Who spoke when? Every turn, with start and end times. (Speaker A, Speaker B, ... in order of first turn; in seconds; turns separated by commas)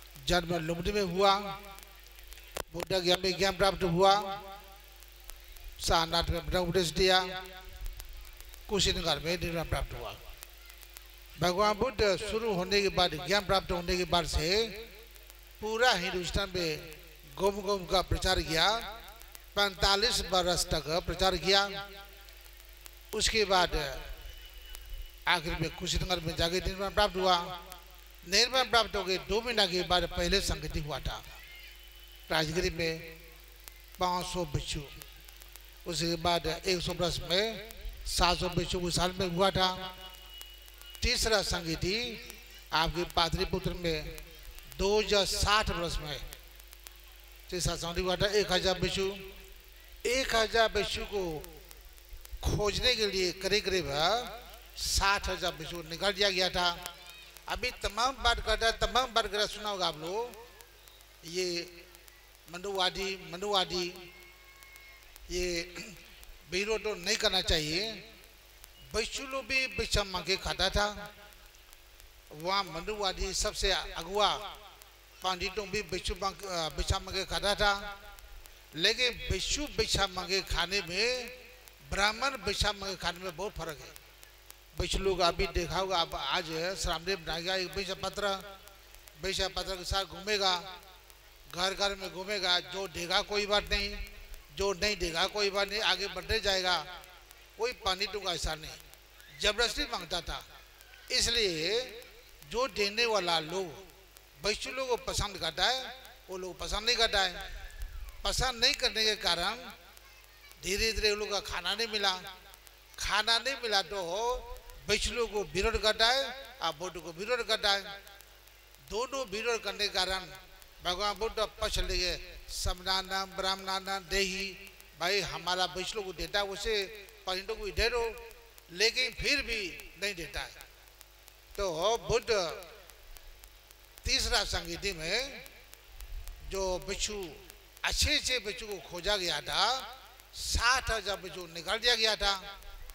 Speaker A: 0.2-1.6, Speaker A: 2.7-4.4, Speaker A: 5.8-7.3, Speaker A: 8.7-10.2, Speaker A: 11.4-14.8, Speaker A: 15.6-18.9, Speaker A: 19.5-21.8, Speaker A: 23.1-24.1, Speaker A: 25.3-27.6, Speaker A: 28.2-31.2, Speaker A: 32.3-33.1, Speaker A: 34.0-35.0, Speaker A: 35.9-39.9, Speaker A: 41.0-44.2, Speaker A: 44.8-46.2, Speaker A: 47.5-49.3, Speaker A: 50.0-51.5, Speaker A: 52.4-56.8, Speaker A: 57.5-60.4, Speaker A: 61.2-61.7, Speaker A: 62.5-64.0, Speaker A: 65.3-68.0, Speaker A: 68.9-71.1, Speaker A: 72.3-74.5, Speaker A: 75.2-77.9, Speaker A: 78.7-81.4, Speaker A: 81.9-84.0, Speaker A: 84.8-88.5, Speaker A: 89.2-90.7, Speaker A: 91.5-96.9, Speaker A: 97.6-98.8, Speaker A: 99.4-100.5, Speaker A: 101.1-103.8, Speaker A: 104.4-107.5, Speaker A: 108.2-109.7, Speaker A: 110.6-112.3, Speaker A: 113.0-117.9, Speaker A: 118.9-130.6, Speaker A: 131.6-132.7, Speaker A: 134.0-135.5, Speaker A: 136.4-142.5